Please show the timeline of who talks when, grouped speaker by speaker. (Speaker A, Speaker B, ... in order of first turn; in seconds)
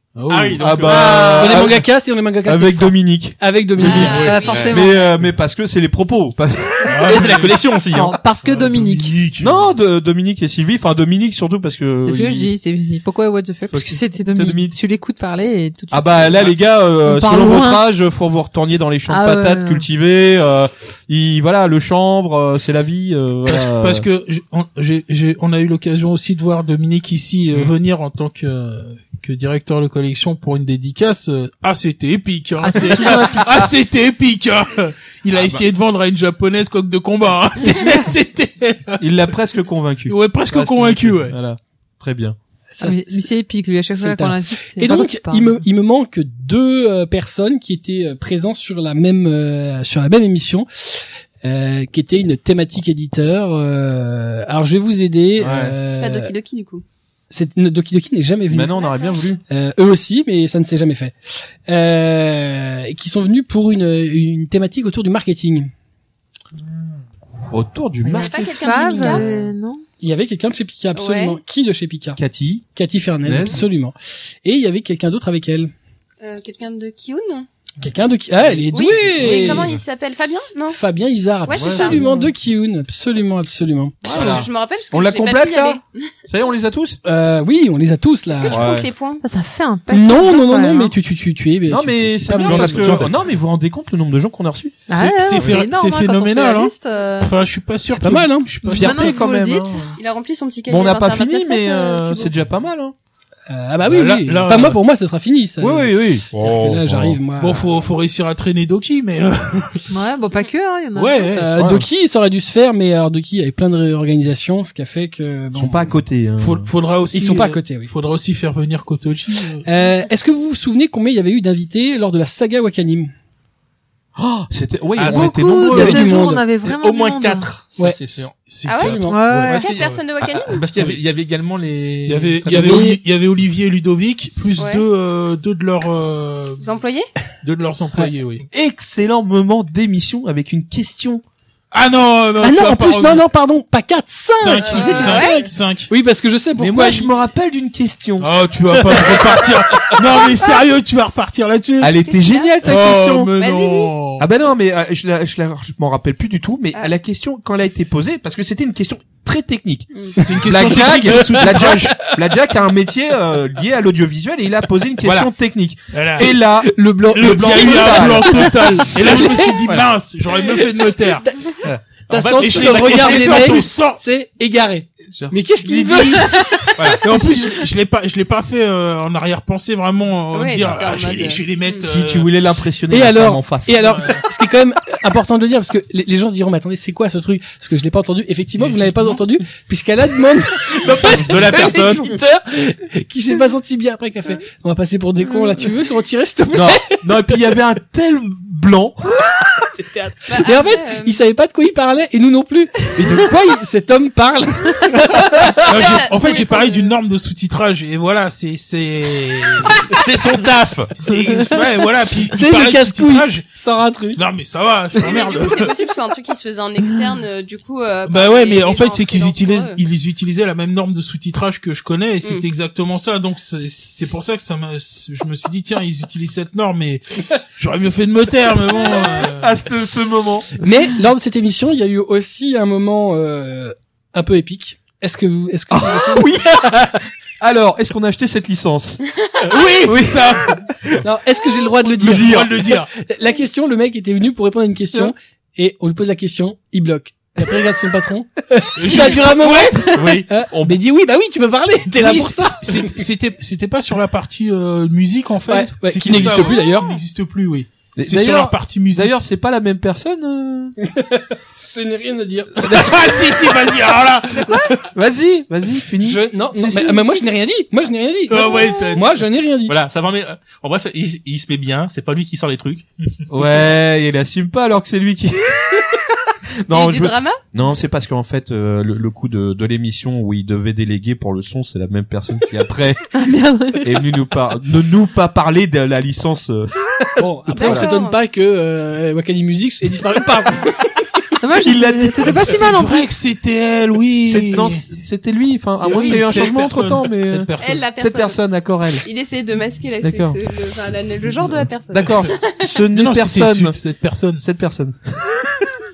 Speaker A: 0.1-0.9, 4.0-4.4, 6.9-7.6, 8.4-9.6, 23.5-39.0, 40.1-41.3, 94.9-99.1, 103.8-104.8, 107.4-109.8, 110.9-111.5, 116.4-119.7, 128.4-130.1, 132.1-136.6, 137.4-138.4, 141.7-143.2, 144.4-145.9, 148.2-151.9, 152.6-154.3, 160.2-162.0, 165.9-166.4, 167.1-171.3, 172.3-174.0, 175.6-176.3, 177.0-182.3, 183.8-184.1, 188.6-189.2, 205.6-209.9, 210.9-213.5, 214.1-215.8, 218.1-227.1, 227.6-229.6, 239.5-240.6, 241.8-242.9, 248.8-249.9, 252.0-259.2, 262.7-264.8, 268.3-269.1, 292.4-294.8, 295.8-297.8, 302.9-304.4
Speaker B: 0.3-1.6, 7.0-8.2, 92.4-93.2, 106.3-107.1, 125.0-125.5, 126.6-128.3, 130.2-132.9, 165.0-165.3, 169.6-169.9, 171.6-173.7, 176.8-177.1, 190.7-192.1, 209.9-211.5, 249.9-250.3, 269.7-272.9
Speaker C: 0.6-1.9, 2.4-4.0, 4.5-7.4, 9.4-12.5, 13.7-14.8, 15.9-24.1, 35.3-35.6, 39.0-42.4, 55.4-55.8, 58.5-59.4, 67.5-68.3, 72.2-72.6, 73.2-73.6, 81.5-82.2, 84.0-87.0, 88.5-88.9, 91.7-94.9, 98.6-99.9, 100.7-103.0, 105.6-106.3, 106.9-107.2, 111.5-111.9, 115.5-116.7, 124.2-126.1, 138.5-141.2, 146.6-148.3, 151.8-153.3, 154.2-168.5, 175.1-176.0, 181.8-184.0, 196.5-199.2, 229.1-230.5, 235.7-239.1, 239.8-241.1, 242.0-242.5, 250.1-250.8, 256.1-256.5, 257.9-260.8, 262.6-263.1, 264.9-267.0, 273.3-283.0, 283.8-286.7, 287.5-287.9, 291.6-292.6, 294.3-299.1, 300.0-300.4, 301.9-303.8, 304.4-305.7
Speaker D: 1.2-4.4, 42.7-43.3, 44.0-56.3, 57.3-58.9, 59.5-61.1, 61.7-65.7, 70.0-72.2, 72.7-75.7, 77.8-79.8, 80.7-84.0, 87.0-88.7, 89.9-93.0, 97.9-98.5, 103.5-107.7, 111.3-116.0, 117.1-117.9, 119.6-123.1, 125.7-126.5, 128.8-129.2, 132.4-133.0, 142.4-147.1, 148.7-150.2, 161.1-162.1, 166.6-169.7, 170.9-177.6, 182.9-197.4, 199.7-205.6, 211.3-211.6, 212.3-214.2, 230.6-236.8, 241.0-252.9, 255.5-257.0, 260.8-263.1, 266.0-269.8, 287.2-290.7
Speaker E: 3.8-5.0, 55.9-56.8, 58.8-59.1, 68.1-69.2, 70.9-71.4, 76.2-77.5, 78.7-80.8, 81.4-82.2, 84.0-86.1, 88.3-89.2, 100.0-102.3, 128.6-130.7, 134.6-134.8, 136.6-137.1, 144.7-145.4, 152.1-152.6, 153.4-153.9, 180.3-181.9, 200.3-201.2, 205.7-206.9, 215.0-219.8, 264.3-264.7, 276.7-277.4, 287.5-288.2, 297.6-298.4, 299.0-302.7
Speaker F: 3.8-5.0, 7.9-9.2, 12.1-17.8, 19.1-19.8, 32.6-33.6, 42.8-45.5, 68.1-69.8, 89.2-90.9, 94.9-97.3, 98.6-100.0, 109.9-111.3, 125.0-127.5, 129.1-129.7, 283.1-283.9, 291.4-293.2